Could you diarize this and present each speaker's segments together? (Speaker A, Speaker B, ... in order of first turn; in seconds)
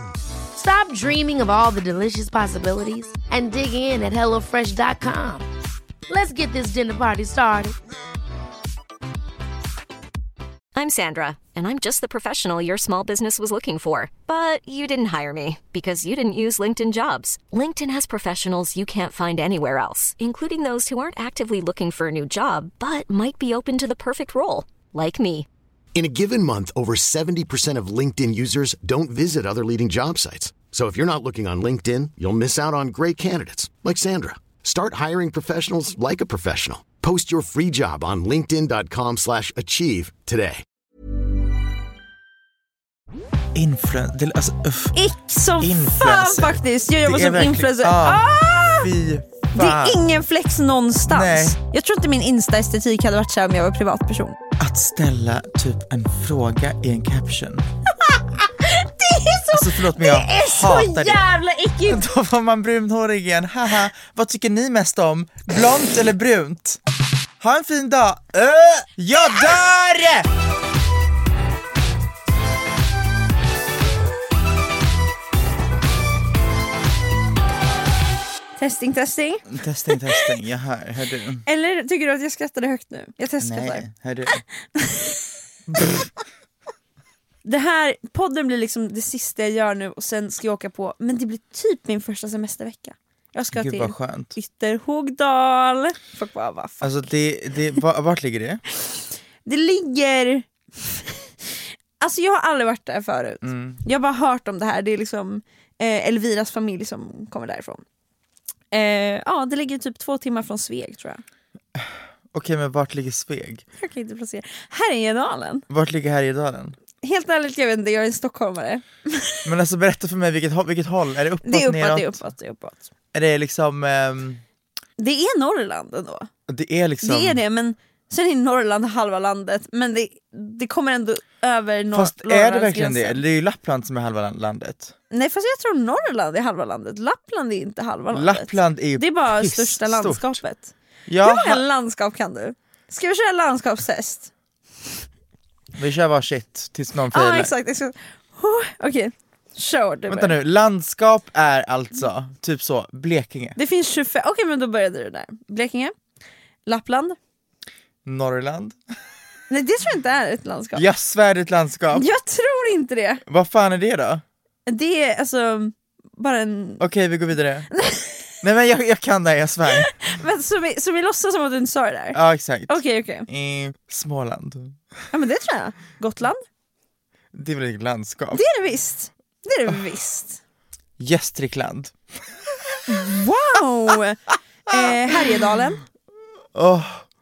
Speaker A: 0.5-5.5, 6.1-7.7
Speaker B: 10.7-25.5
Speaker C: 25.9-40.6
Speaker D: 43.5-45.0, 45.6-50.1, 51.1-51.6, 54.6-57.6, 59.5-61.2, 61.9-66.8, 67.4-70.3, 79.5-81.4, 83.4-84.4, 85.7-86.1, 93.5-94.3, 96.8-98.6, 103.4-103.8, 111.8-113.6, 115.7-116.8, 119.4-122.2, 123.1-124.4, 126.5-127.4, 131.9-134.9, 138.1-140.4, 141.1-141.6, 145.8-147.5, 150.1-153.6, 158.0-158.8, 160.8-162.1, 163.3-164.2, 166.8-167.7, 168.4-169.9, 172.1-174.8, 177.3-178.4, 181.0-182.0, 186.5-187.0
Speaker E: 44.9-48.9, 49.5-54.4, 58.6-62.0, 78.6-80.3, 81.5-85.2, 87.4-97.1, 98.9-101.0, 102.0-107.8, 108.7-111.2, 113.8-115.7, 117.0-119.4, 121.4-122.9, 125.0-126.3, 127.0-133.2, 135.1-144.3, 147.1-150.3, 153.6-155.9, 156.7-157.2, 159.5-160.8, 161.9-163.2, 164.7-166.8, 167.7-168.3, 169.7-173.3, 175.1-176.4, 178.3-180.4, 182.9-185.8